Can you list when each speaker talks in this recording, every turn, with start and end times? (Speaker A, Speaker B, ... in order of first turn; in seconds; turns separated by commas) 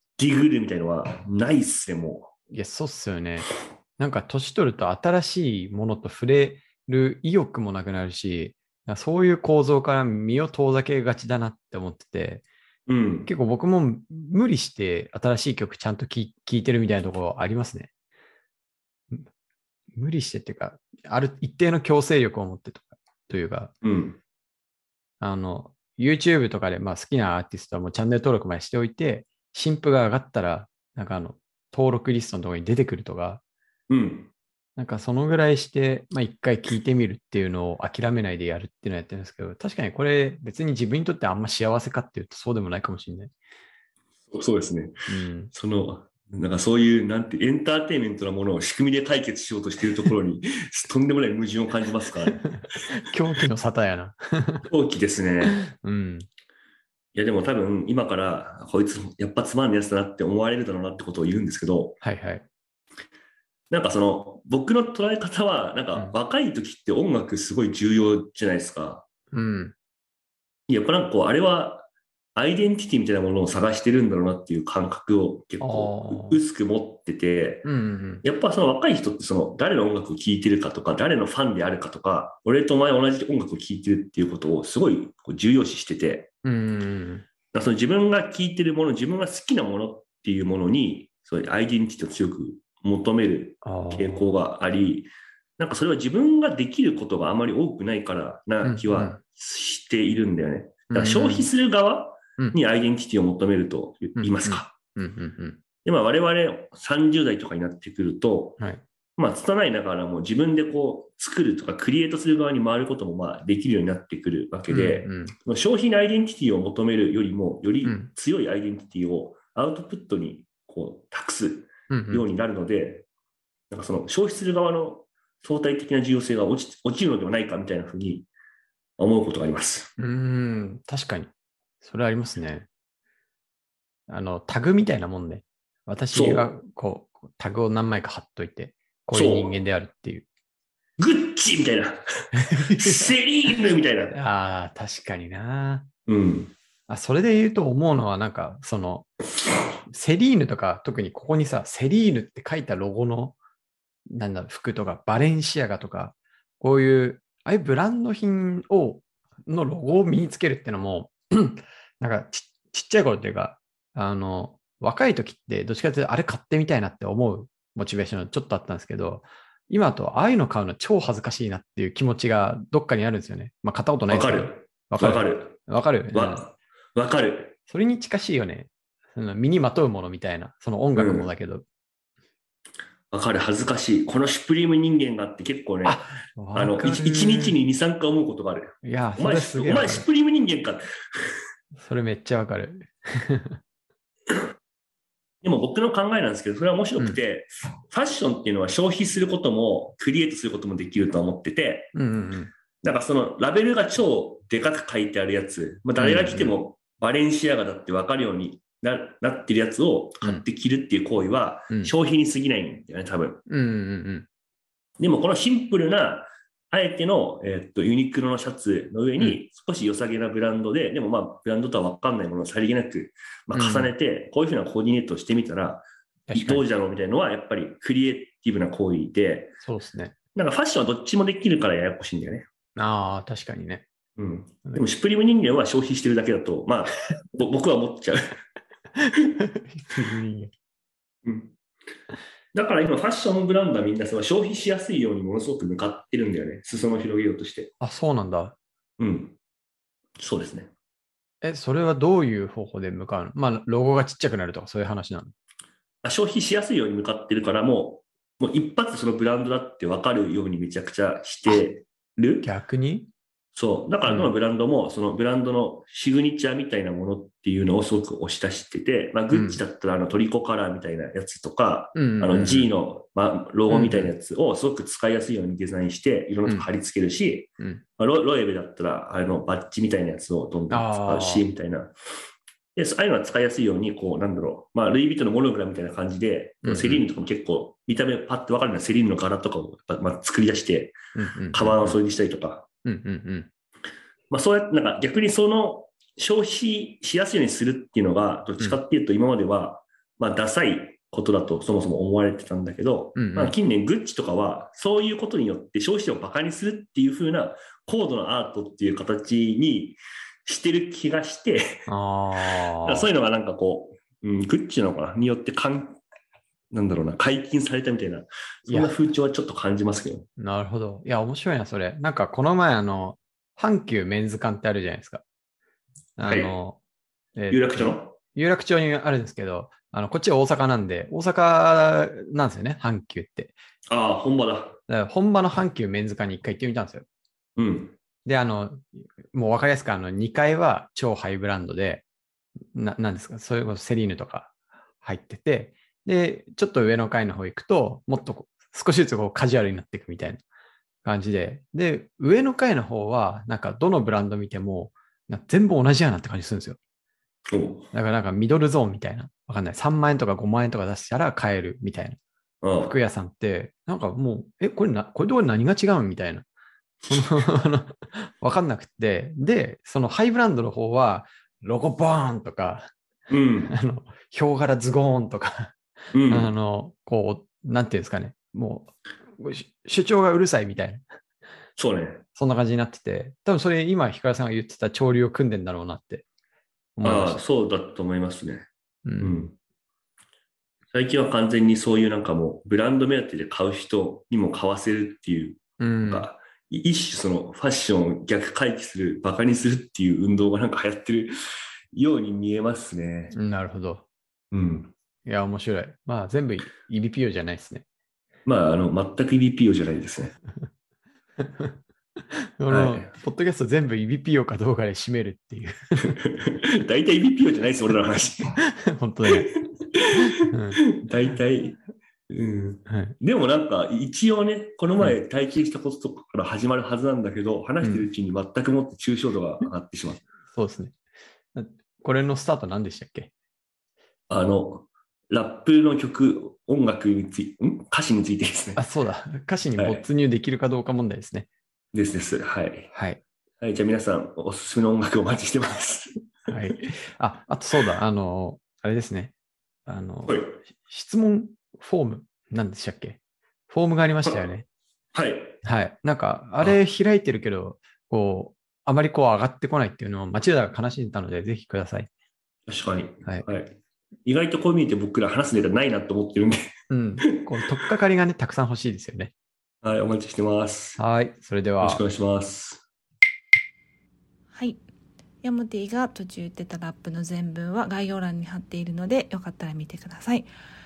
Speaker A: 0.2-2.3, Speaker B: 2.5-12.5, Speaker A: 12.9-13.3, Speaker B: 13.2-17.9, Speaker B: 19.9-23.8, Speaker A: 23.8-24.2, Speaker B: 25.2-33.4, Speaker A: 33.9-34.3, Speaker B: 34.8-43.3, Speaker A: 44.3-45.0, Speaker B: 45.1-45.5, Speaker A: 45.5-52.5, Speaker B: 52.9-54.7, Speaker A: 54.7-55.6, Speaker B: 55.5-56.3, Speaker A: 57.1-62.0, Speaker B: 62.0-62.5, Speaker A: 63.7-69.0, Speaker B: 69.3-69.8, Speaker A: 70.7-77.7, Speaker B: 75.6-76.4, Speaker B: 77.6-78.2, Speaker A: 78.2-86.3, Speaker B: 86.4-87.2, Speaker A: 87.5-104.8, Speaker B: 93.6-94.2, Speaker B: 98.6-99.2, Speaker B: 100.9-101.5, Speaker B: 104.2-105.6, Speaker A: 105.8-108.6, Speaker A: 109.2-123.1, Speaker B: 114.7-115.4, Speaker B: 117.8-118.1, Speaker B: 121.9-122.2, Speaker A: 123.7-128.3, Speaker A: 129.0-129.9, Speaker B: 130.0-131.3, Speaker B: 131.8-132.7, Speaker B: 134.1-140.3, Speaker A: 136.1-136.5, Speaker A: 139.1-139.6, Speaker A: 141.0-144.2, Speaker B: 142.3-143.1, Speaker B: 144.1-145.9, Speaker A: 146.1-146.5, Speaker B: 146.9-149.1, Speaker B: 149.9-153.4, Speaker B: 154.1-176.5, Speaker A: 174.1-175.6, Speaker A: 176.1-177.6, Speaker B: 177.7-181.6, Speaker A: 181.0-181.3, Speaker A: 183.1-186.0, Speaker B: 185.8-187.6, Speaker A: 186.6-191.2, Speaker B: 188.8-190.1, Speaker B: 191.8-193.6, Speaker A: 195.4-201.9, Speaker B: 201.9-202.5, Speaker A: 202.8-213.4, Speaker B: 206.0-206.6, Speaker B: 213.5-214.3, Speaker A: 215.0-229.5, Speaker B: 223.5-223.9, Speaker B: 226.3-226.6, Speaker B: 229.6-230.1, Speaker A: 230.3-232.5, Speaker B: 232.8-233.9, Speaker A: 234.2-238.4, Speaker B: 239.0-240.5, Speaker A: 241.2-241.6, Speaker A: 242.5-247.7, Speaker B: 247.8-248.6, Speaker A: 249.0-249.4, Speaker A: 250.2-250.7, Speaker B: 251.4-255.3, Speaker A: 256.0-262.5, Speaker B: 262.4-263.1, Speaker A: 263.5-281.9, Speaker B: 264.1-264.3, Speaker B: 269.3-269.6, Speaker B: 271.9-272.7, Speaker B: 273.7-274.1, Speaker B: 280.7-281.5, Speaker A: 282.8-291.0, Speaker B: 286.6-287.1, Speaker B: 291.1-292.0, Speaker A: 291.5-292.6, Speaker B: 292.9-293.5, Speaker A: 294.3-311.6, Speaker B: 303.1-303.6, Speaker B: 311.9-313.1, Speaker A: 312.5-316.0, Speaker A: 316.7-320.2, Speaker B: 318.7-318.9, Speaker B: 320.4-325.2, Speaker B: 326.2-326.8, Speaker A: 326.2-326.6, Speaker B: 327.4-333.6, Speaker A: 327.5-328.1, Speaker A: 333.9-334.8, Speaker B: 334.9-337.1, Speaker A: 337.6-337.9, Speaker B: 338.2-342.1, Speaker B: 342.7-350.4, Speaker B: 351.1-356.8, Speaker A: 357.5-357.9, Speaker B: 357.9-362.2, Speaker A: 362.6-362.9, Speaker B: 362.8-366.5, Speaker A: 367.1-367.4, Speaker B: 367.1-372.9, Speaker A: 373.3-373.7, Speaker B: 373.6-381.0, Speaker A: 376.1-376.5, Speaker A: 381.8-382.2, Speaker B: 382.4-386.2, Speaker B: 387.0-387.4, Speaker A: 387.0-388.7, Speaker B: 389.1-389.4, Speaker A: 389.2-389.6, Speaker A: 390.9-401.3, Speaker B: 395.8-396.3, Speaker A: 401.9-403.4, Speaker B: 403.3-404.1, Speaker A: 404.5-404.9, Speaker B: 405.2-407.9, Speaker A: 408.5-410.4, Speaker B: 411.4-411.8, Speaker B: 412.6-416.1, Speaker A: 412.7-413.1, Speaker A: 416.1-418.6, Speaker B: 418.6-419.5, Speaker A: 419.3-430.2, Speaker B: 420.3-420.8, Speaker B: 422.9-423.1, Speaker B: 427.8-428.1, Speaker B: 430.5-430.9, Speaker B: 431.6-433.3, Speaker A: 434.3-438.8, Speaker B: 438.8-441.5, Speaker A: 439.8-440.1, Speaker A: 441.9-442.9, Speaker B: 442.9-443.2, Speaker A: 443.6-446.5, Speaker B: 446.5-449.4, Speaker B: 449.9-454.6, Speaker A: 450.3-450.5, Speaker A: 455.1-455.6, Speaker B: 455.6-462.1, Speaker A: 462.7-463.8, Speaker A: 464.3-466.6, Speaker B: 466.9-469.3, Speaker A: 469.8-471.0, Speaker B: 471.0-472.0, Speaker A: 471.8-472.8, Speaker C: 475.4-480.5